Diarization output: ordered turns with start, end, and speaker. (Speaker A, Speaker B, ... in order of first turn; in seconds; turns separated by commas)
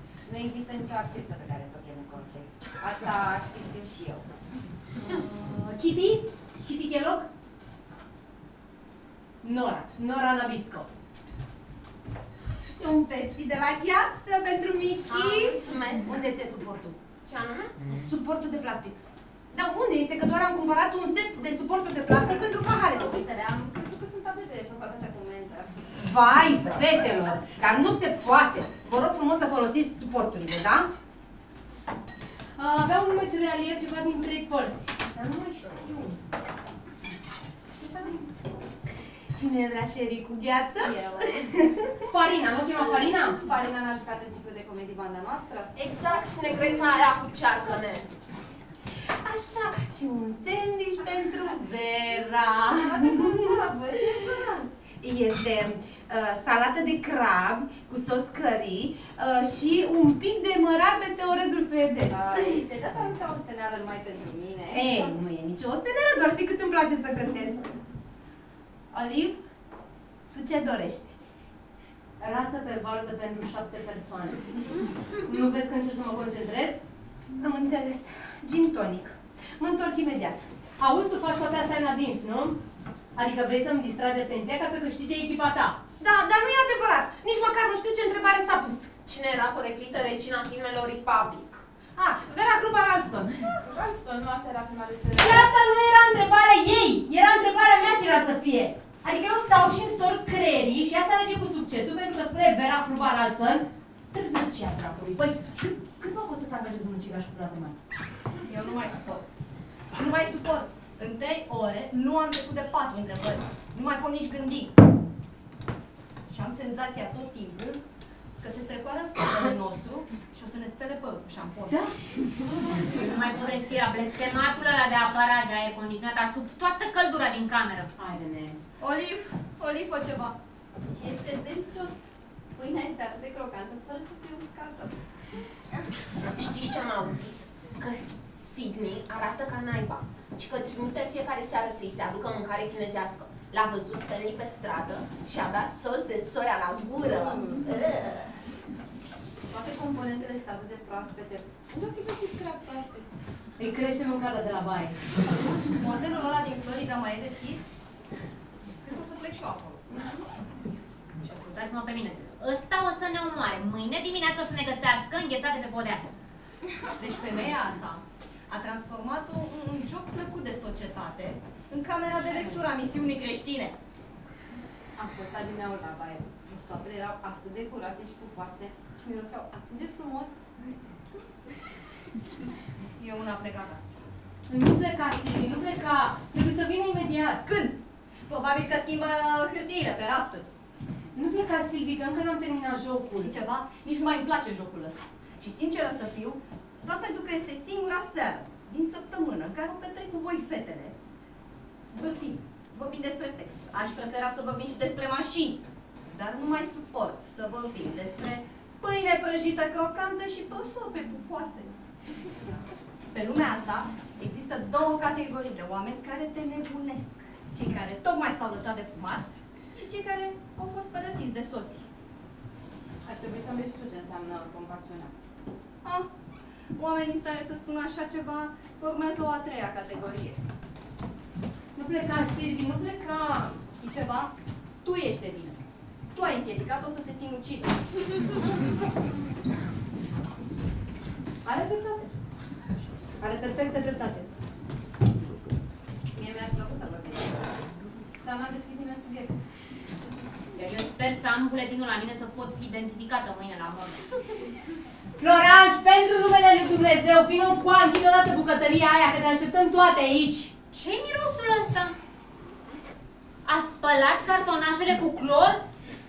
Speaker A: 0.2-4.3, Speaker B: 5.0-7.3, Speaker B: 9.4-10.9, Speaker C: 12.6-17.0, Speaker D: 15.1-16.2, Speaker D: 17.2-17.7, Speaker C: 17.8-18.9, Speaker C: 19.5-23.2, Speaker A: 22.1-25.9, Speaker C: 25.9-30.9, Speaker B: 32.5-36.2, Speaker C: 39.3-41.0, Speaker A: 40.8-41.5, Speaker B: 42.0-43.4, Speaker A: 43.0-45.7, Speaker D: 45.7-48.1, Speaker C: 48.9-52.8, Speaker A: 52.7-54.7, Speaker C: 55.0-62.4, Speaker A: 62.1-65.1, Speaker C: 64.7-67.6, Speaker C: 68.9-69.4, Speaker C: 70.3-71.2, Speaker B: 72.2-74.5, Speaker B: 75.2-76.8, Speaker C: 77.4-80.5, Speaker B: 80.8-82.6, Speaker B: 83.2-85.8, Speaker C: 86.0-88.9, Speaker D: 89.0-91.6, Speaker C: 92.0-93.6, Speaker D: 93.5-95.5, Speaker C: 95.2-96.0, Speaker B: 95.5-107.8, Speaker E: 108.4-109.2, Speaker E: 109.9-114.7, Speaker E: 116.3-117.8, Speaker E: 118.4-121.9, Speaker E: 122.7-123.3, Speaker F: 122.7-127.9, Speaker B: 128.0-128.6, Speaker E: 128.8-130.3, Speaker A: 130.9-131.9, Speaker A: 132.5-135.0, Speaker D: 136.3-147.4, Speaker E: 147.1-148.3, Speaker A: 149.5-153.1, Speaker B: 153.6-155.0, Speaker E: 155.7-157.7, Speaker E: 158.8-160.0, Speaker F: 161.2-166.1, Speaker E: 166.8-173.7, Speaker A: 174.9-180.4, Speaker E: 183.0-184.1, Speaker B: 184.5-187.4, Speaker E: 188.3-190.5, Speaker B: 191.1-193.3, Speaker E: 193.2-200.9, Speaker E: 201.9-211.8, Speaker E: 213.1-221.9, Speaker A: 223.0-225.1, Speaker E: 226.7-230.4, Speaker B: 231.7-233.5, Speaker E: 233.7-237.8, Speaker B: 241.4-242.1, Speaker B: 243.2-244.3, Speaker A: 246.1-249.3, Speaker F: 250.6-254.2, Speaker B: 255.2-260.5, Speaker F: 260.7-261.9, Speaker F: 263.4-265.6